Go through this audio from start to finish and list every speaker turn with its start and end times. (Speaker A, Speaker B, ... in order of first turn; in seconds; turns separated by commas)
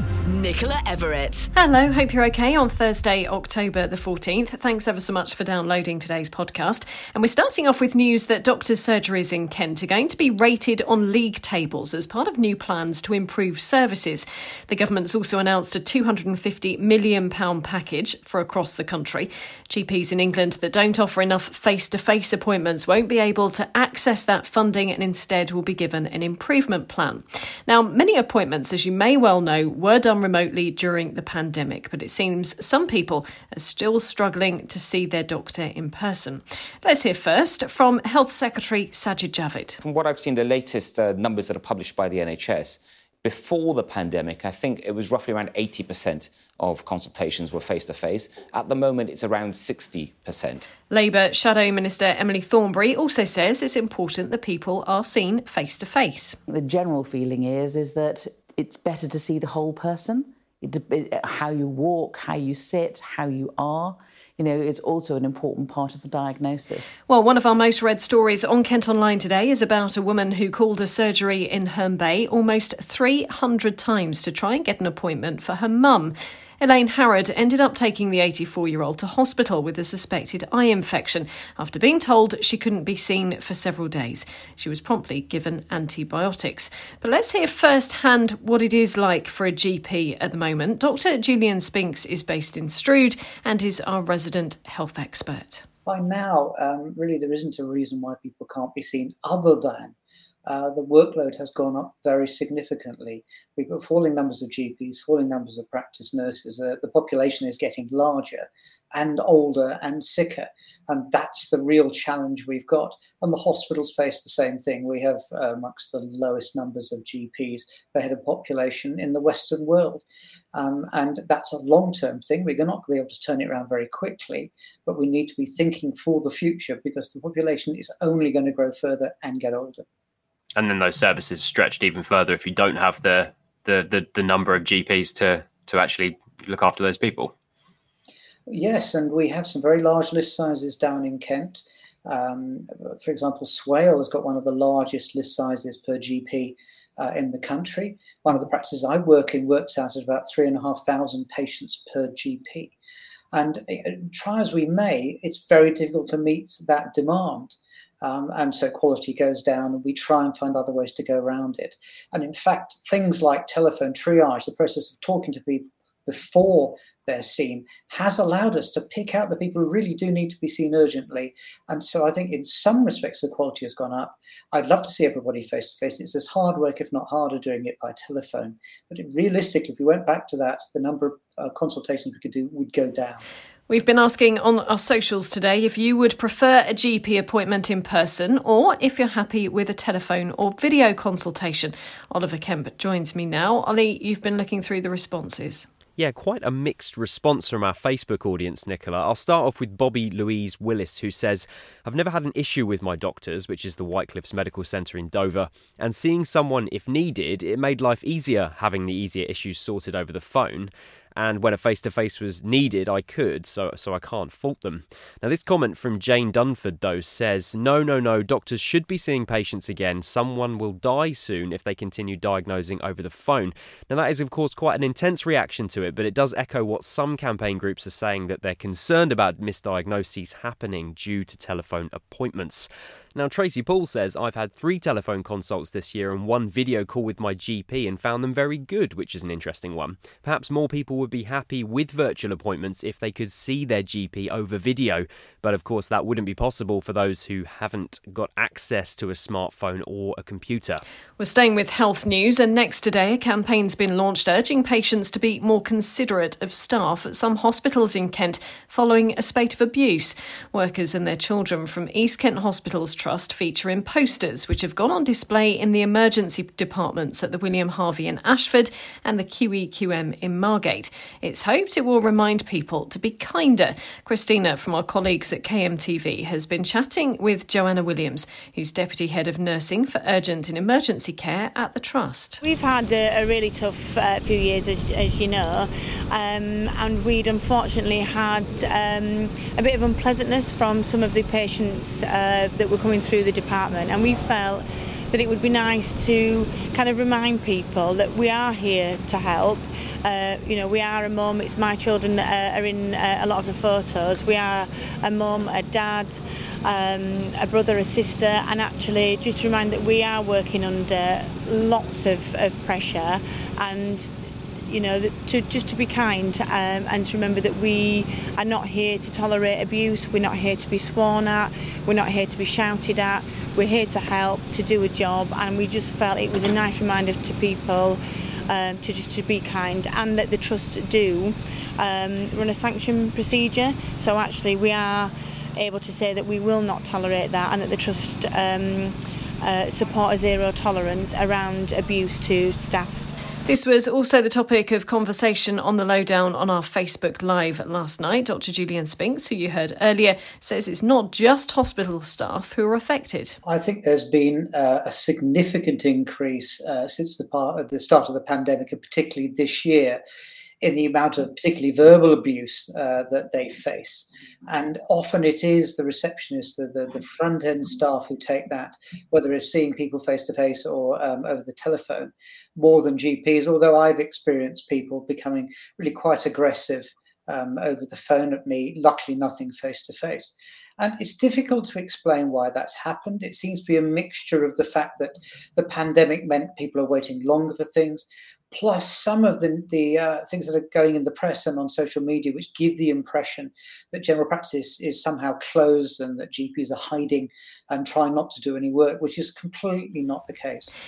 Speaker A: 0.3-1.5, Speaker B: 1.5-39.8, Speaker C: 39.8-50.7, Speaker B: 50.9-56.4, Speaker D: 56.5-66.9, Speaker B: 67.1-95.6, Speaker E: 95.8-99.9, Speaker E: 100.5-120.0, Speaker E: 120.5-129.8, Speaker F: 130.6-137.3, Speaker E: 138.5-152.7, Speaker E: 153.3-183.2, Speaker B: 183.7-195.7, Speaker A: 195.9-250.8, Speaker B: 251.2-282.4, Speaker G: 282.4-314.1, Speaker G: 314.7-343.0, Speaker B: 343.4-353.4, Speaker E: 353.4-360.0, Speaker E: 360.6-400.7